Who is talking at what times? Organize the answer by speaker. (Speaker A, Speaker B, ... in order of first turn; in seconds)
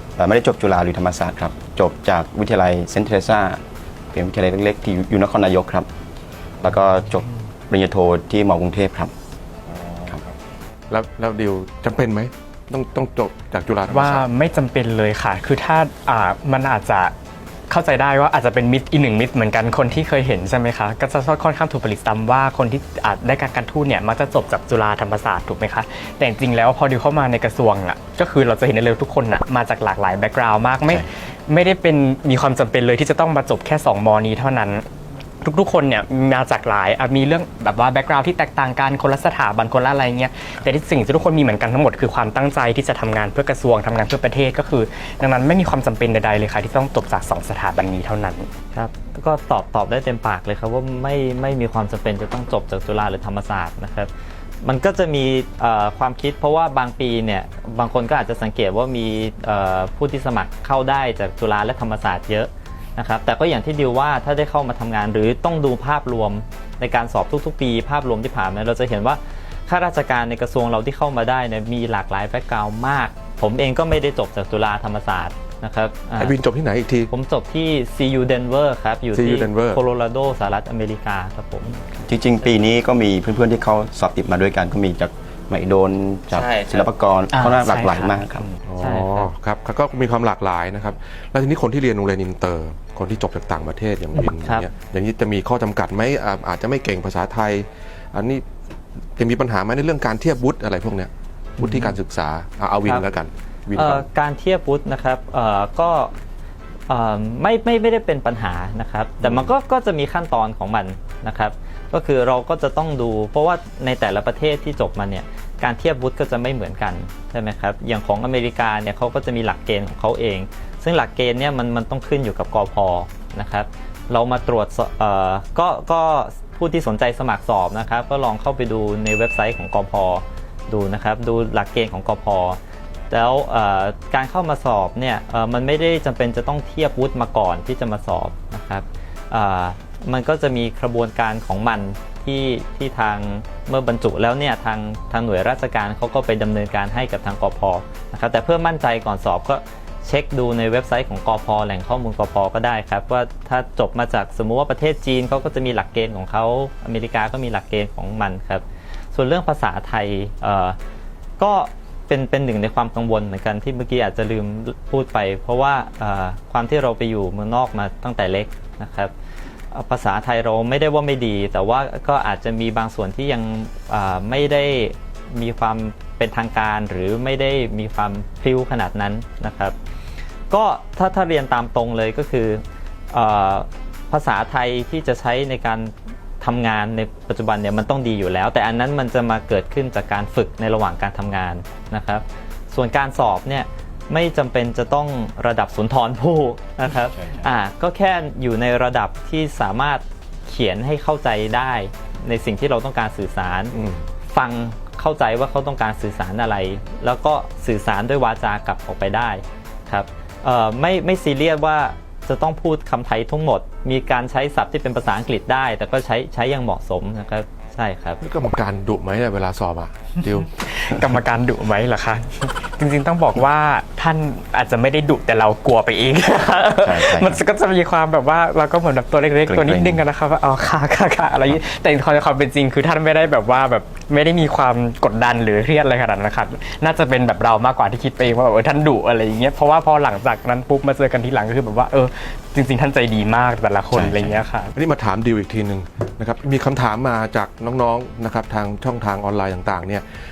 Speaker A: 0.2-3.6, 4.1-5.9, 6.6-9.1, 10.0-10.3, 82.0-88.5, 197.1-197.5, 226.8-227.4, 229.5-230.0, 243.9-244.4
Speaker B: 10.9-14.3, 76.2-77.1, 79.1-79.8, 88.7-98.5, 99.2-104.0, 109.2-109.5, 203.7-204.0, 218.2-220.5, 244.8-250.1
Speaker C: 13.9-17.1, 17.7-34.9, 35.4-48.5, 87.3-88.6, 220.4-244.7
Speaker D: 48.7-54.1, 54.6-76.4, 77.1-81.8, 86.3-86.9, 88.8-89.3, 94.4-94.7, 103.7-106.1, 106.9-132.6, 133.1-160.8, 161.4-169.1, 169.7-179.8, 180.5-203.8, 204.3-218.2